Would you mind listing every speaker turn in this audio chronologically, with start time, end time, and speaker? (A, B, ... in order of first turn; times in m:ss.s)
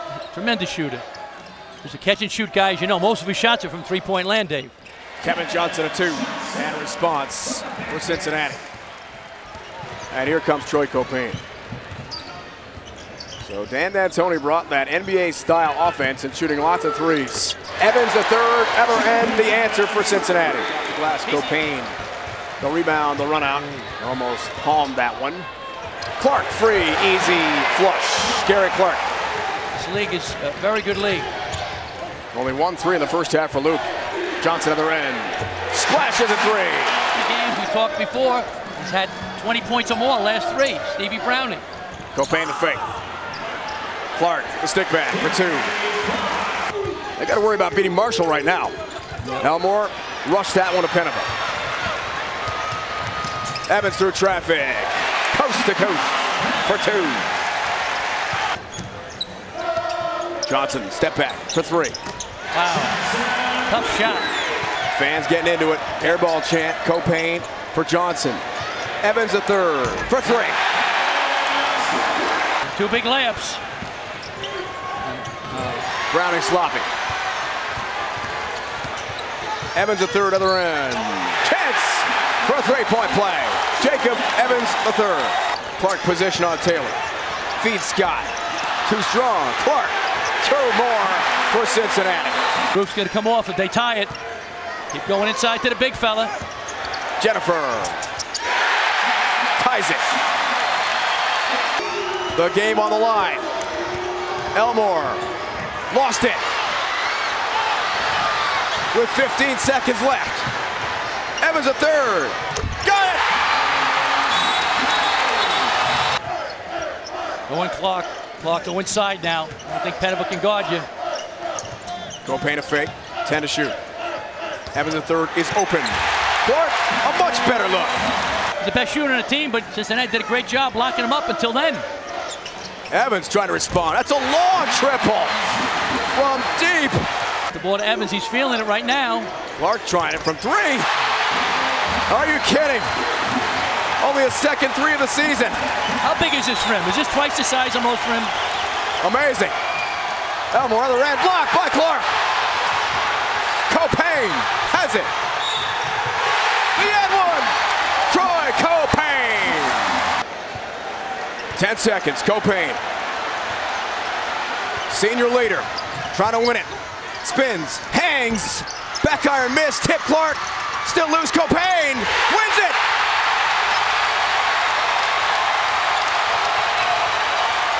0:00.3-0:01.0 A
0:01.8-0:04.7 A
0:05.2-0:08.6 B
0:10.1-0:11.4 B
0:13.4-0:22.0 B
0:22.6-0:25.5 B
0:26.2-0:29.0 B
0:29.7-0:31.3 A
0:32.3-0:33.9 B
0:34.4-0:37.0 B
0:37.1-0:41.6 A
0:42.1-0:42.8 B
0:44.1-0:45.7 B
0:47.2-0:48.7 B
0:49.4-0:51.3 B
0:53.7-0:57.3 B
1:00.4-1:02.0 B
1:02.5-1:03.0 A
1:03.6-1:04.3 A
1:04.9-1:08.4 B
1:09.0-1:10.6 B
1:12.6-1:13.6 A
1:15.0-1:15.9 A
1:16.1-1:16.9 B
1:19.7-1:27.0 B
1:27.6-1:28.3 B
1:28.8-1:32.4 B
1:32.7-1:34.1 A
1:34.9-1:36.3 A
1:37.2-1:38.0 B
1:39.6-1:40.0 B
1:42.3-1:43.4 B
1:44.5-1:45.2 B
1:45.9-1:46.4 B
1:48.9-1:50.5 B
1:51.4-1:53.2 B
1:57.5-2:00.9 A
2:02.2-2:03.8 B
2:04.7-2:08.0 B
2:08.6-2:11.8 A
2:12.9-2:15.3 B
2:16.1-2:17.0 B
2:17.5-2:19.3 A
2:19.6-2:20.9 B
2:22.1-2:22.9 B
2:24.0-2:25.6 B
2:26.0-2:28.3 A
2:29.0-2:29.5 B
2:30.5-2:32.1 B
2:33.7-2:35.1 B
2:36.8-2:37.5 B
2:38.1-2:40.0 B
2:41.5-2:42.8 B
2:44.9-2:52.8 B